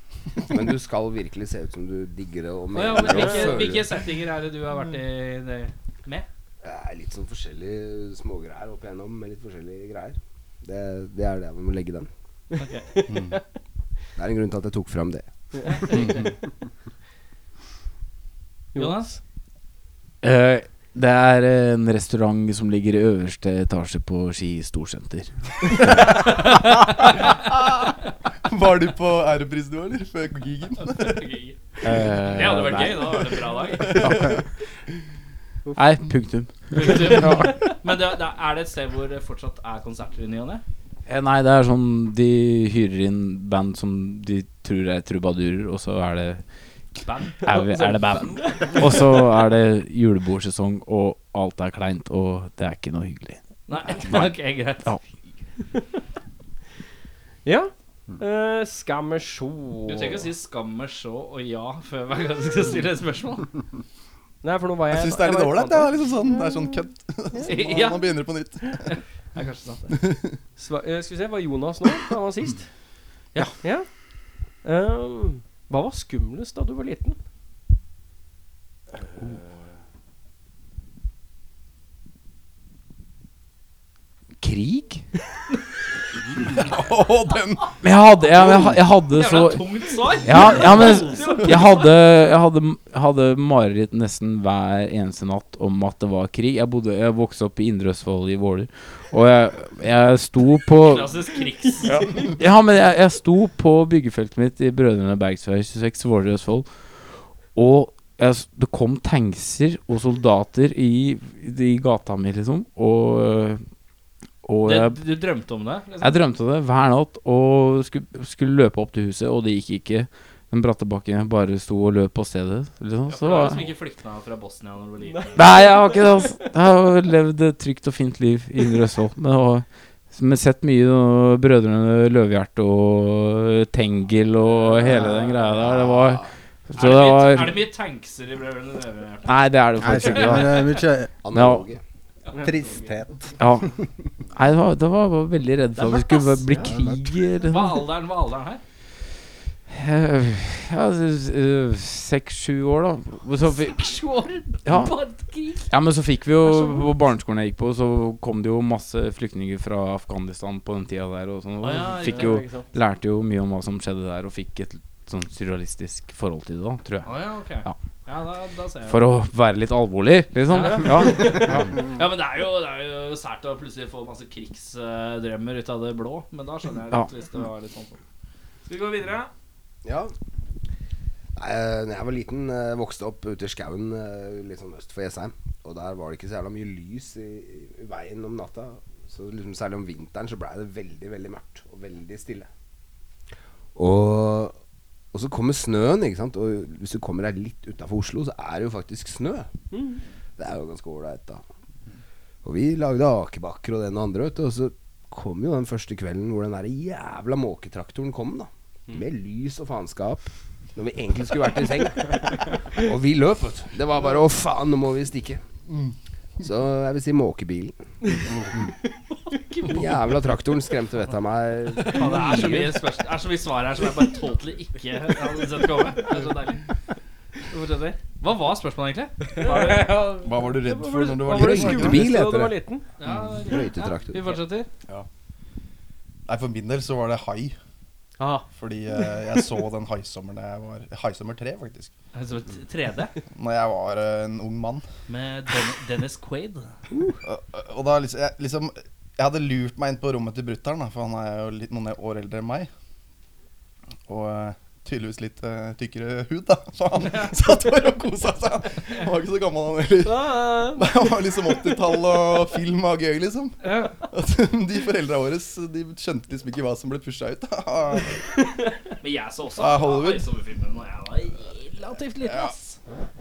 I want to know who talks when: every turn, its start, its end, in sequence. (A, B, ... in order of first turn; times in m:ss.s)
0:00.4-0:03.9 A
0:02.7-0:06.2 B
0:03.0-0:03.6 C
0:06.6-0:12.1 A
0:12.6-0:12.9 B
0:13.1-0:13.4 D
0:14.2-0:15.2 A
0:15.6-0:16.3 B
0:15.9-0:16.3 D
0:18.7-0:19.2 C
0:18.7-0:19.1 B
0:20.2-0:26.2 E
0:28.4-0:31.3 D
0:31.0-0:31.6 B
0:31.8-0:33.4 E
0:32.2-0:34.2 B
0:33.9-0:34.4 E
0:35.7-0:37.7 E
0:36.7-0:40.6 B
0:41.1-0:46.4 E
0:46.9-0:48.8 B
0:47.4-0:55.0 E
0:53.7-0:55.0 B
0:57.4-1:00.3 C
0:59.9-1:03.5 B
1:04.4-1:06.5 C
1:04.9-1:09.0 D
1:07.4-1:08.2 B
1:08.8-1:09.9 B
1:09.9-1:10.4 D
1:10.6-1:12.8 C
1:13.6-1:13.9 C
1:14.4-1:17.2 C
1:24.4-1:25.0 E
1:26.4-1:27.8 D
1:27.8-1:41.1 E
1:28.3-1:28.8 D
1:29.1-1:31.8 B
1:30.8-1:31.8 C
1:40.8-1:42.3 B
1:42.0-1:53.6 E
1:54.4-1:55.0 E
1:54.6-1:56.2 B
1:56.0-2:03.7 E
2:03.1-2:05.4 B
2:05.1-2:06.5 C
2:05.3-2:17.6 E
2:15.1-2:16.3 A
2:16.7-2:19.4 B
2:19.2-2:20.7 E
2:19.8-2:21.1 F
2:20.0-2:20.8 B
2:21.2-2:21.8 A
2:21.3-2:21.6 E
2:22.3-2:22.7 B
2:22.4-2:23.4 F
2:23.4-2:23.7 E
2:24.3-2:27.8 E
2:25.8-2:26.6 B
2:26.6-2:27.0 F
2:27.5-2:28.6 B
2:29.7-2:33.9 E
2:33.4-2:35.7 B
2:34.6-2:35.0 E
2:35.7-2:47.8 E
2:36.4-2:36.9 B
2:41.6-2:42.4 B
2:42.0-2:42.7 C
2:47.0-2:49.0 B
2:48.9-2:51.9 E
2:50.5-2:58.0 B
2:50.6-2:51.5 C
2:58.6-2:59.3 B
2:59.8-3:00.1 A
3:01.4-3:12.5 A
3:13.8-3:14.5 A
3:15.1-3:19.5 A
3:19.7-3:20.0 C
3:20.4-3:21.4 A
3:22.4-3:35.4 A
3:36.4-3:37.8 A
3:39.6-3:42.7 A
3:41.8-3:46.6 B
3:47.5-3:50.0 B
3:49.4-3:52.8 C
3:50.2-3:52.1 D
3:51.3-3:54.4 A
3:53.0-3:54.7 B
3:56.3-3:57.6 D
3:58.2-3:58.5 C
3:58.5-4:01.9 D
4:02.1-4:03.1 B
4:03.3-4:04.8 D
4:05.1-4:06.7 B
4:06.9-4:07.2 C
4:07.2-4:12.7 D
4:14.1-4:28.4 D
4:20.0-4:21.0 C
4:23.6-4:23.9 B
4:29.0-4:32.8 B
4:29.6-4:30.2 D
4:32.2-4:32.5 D